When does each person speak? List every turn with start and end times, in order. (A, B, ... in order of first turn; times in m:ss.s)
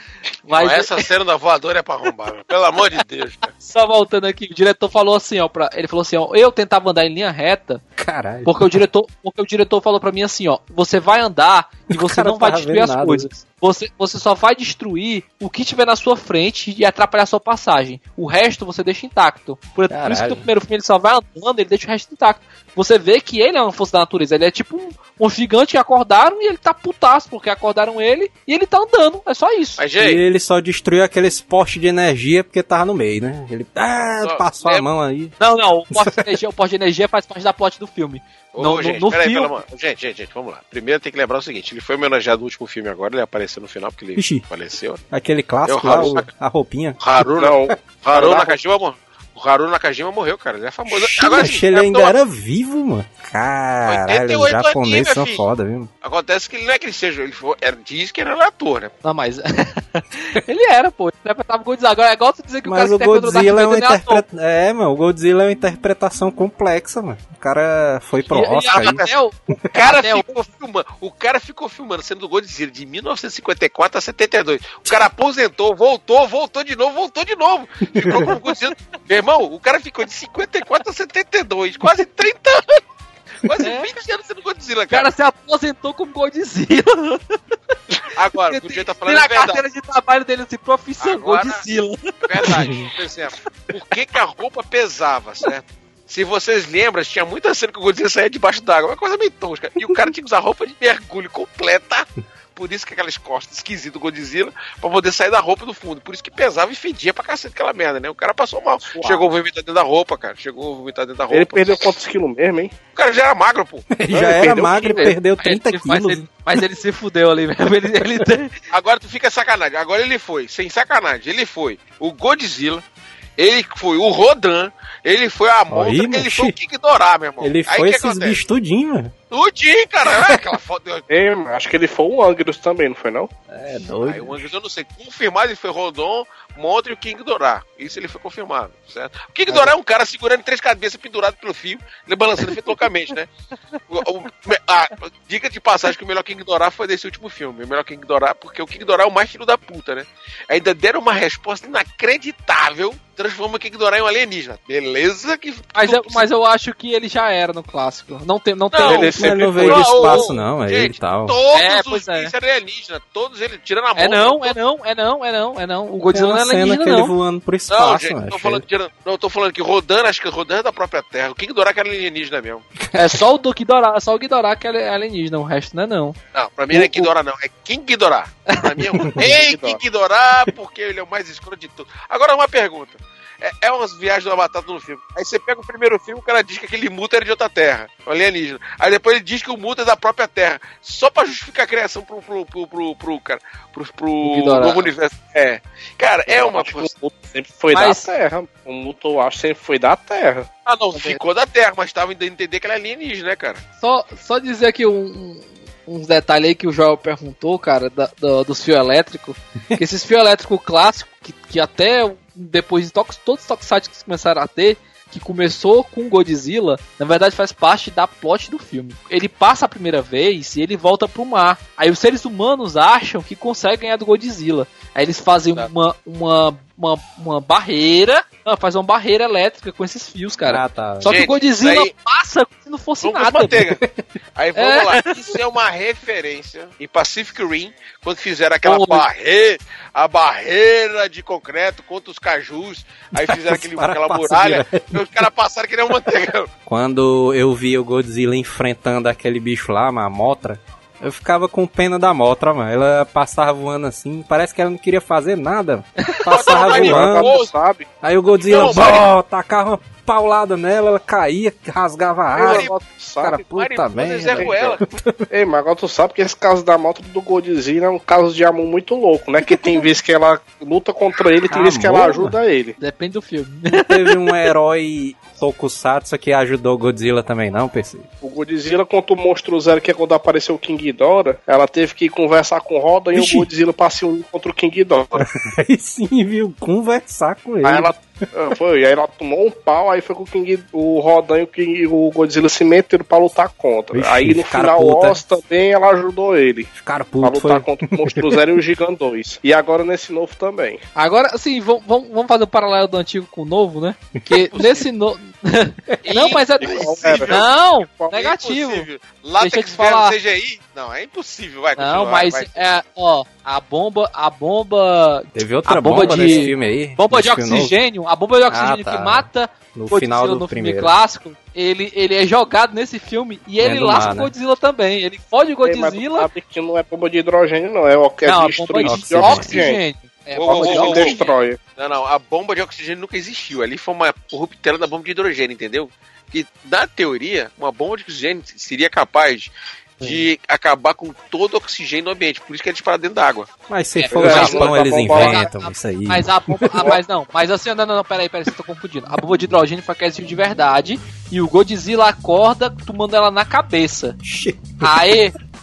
0:00.4-0:01.1 A
0:00.5-0:03.5 B
0:03.6-0:07.8 A
0:08.0-0:08.8 C
0:08.5-0:29.8 A
0:11.9-0:13.3 C
0:19.9-0:20.5 C
0:29.8-0:30.2 B
0:30.0-0:35.4 C
0:34.2-0:34.9 B
0:35.4-0:39.5 A
0:35.9-0:36.2 C
0:38.5-0:45.0 B
0:44.2-0:44.4 C
0:45.1-0:47.0 C
0:45.6-0:46.3 B
0:46.0-0:46.2 D
0:47.0-0:52.1 B
0:47.4-0:48.6 D
0:50.9-0:55.9 C
0:53.9-0:55.4 B
0:56.0-0:58.9 B
0:59.0-1:04.2 A
1:02.6-1:09.0 C
1:08.3-1:10.3 A
1:08.8-1:09.2 B
1:09.7-1:22.8 B
1:18.0-1:18.2 C
1:23.4-1:25.1 B
1:23.6-1:23.9 A
1:24.9-1:27.4 A
1:28.1-1:29.6 B
1:28.5-1:32.8 A
1:31.0-1:31.6 B
1:32.2-1:51.9 B
1:48.9-1:49.3 D
1:51.3-1:52.7 D
1:52.9-1:53.9 B
1:53.9-1:56.3 C
1:54.1-1:55.1 D
1:54.8-1:58.5 A
1:58.7-2:02.8 B
2:03.4-2:08.4 B
2:05.7-2:06.6 C
2:07.4-2:09.1 C
2:09.3-2:11.1 B
2:10.1-2:10.4 C
2:11.1-2:13.3 D
2:13.5-2:14.5 C
2:14.0-2:23.3 B
2:19.5-2:19.7 D
2:23.9-2:36.3 B
2:35.8-2:40.3 A
2:38.7-2:44.6 B
2:38.8-2:41.4 C
2:39.2-2:39.6 D
2:41.5-2:42.3 A
2:44.0-2:47.1 A
2:46.1-2:48.6 C
2:47.7-2:52.6 B
2:52.9-2:56.2 A
2:56.3-3:16.9 B
2:56.7-2:57.1 D
2:59.2-2:59.8 D
3:14.2-3:14.9 A
3:16.3-3:20.5 D
3:17.7-3:18.1 A
3:20.7-3:23.6 B
3:23.8-3:53.6 A
3:50.4-3:51.2 C
3:51.0-3:51.9 B
3:53.0-3:53.8 B
3:54.4-4:06.5 B
3:54.6-3:55.3 A
3:58.6-3:59.0 A
4:03.1-4:05.3 C
4:06.7-4:17.3 C
4:16.0-4:16.3 A
4:16.3-4:17.5 B
4:16.5-4:17.9 D
4:18.0-4:25.2 C
4:18.4-4:19.1 B
4:22.4-4:23.4 D
4:22.4-4:22.8 B
4:23.4-4:24.8 B
4:24.0-4:32.8 D
4:31.5-4:32.4 C
4:32.8-4:34.5 A
4:33.7-4:38.1 C
4:38.2-4:45.2 D
4:43.1-4:43.5 C
4:45.2-4:48.0 C
4:47.6-5:00.8 D
4:53.9-4:55.2 C
4:56.8-4:58.4 C
5:01.0-5:08.9 A
5:04.2-5:04.5 C
5:04.5-5:04.8 B
5:06.0-5:12.6 B
5:06.6-5:07.4 D
5:09.4-5:10.2 A
5:11.8-5:26.3 A
5:15.3-5:17.8 C
5:16.1-5:16.4 D
5:18.5-5:20.9 C
5:23.6-5:24.3 C
5:25.6-5:29.8 D
5:28.2-5:31.4 A
5:28.8-5:29.7 C
5:30.4-5:31.2 B
5:30.5-5:31.6 D
5:31.8-5:43.5 B
5:43.7-5:47.0 C
5:44.0-5:54.2 A
5:44.2-5:45.5 D
5:54.2-5:55.2 C
5:54.8-5:55.3 A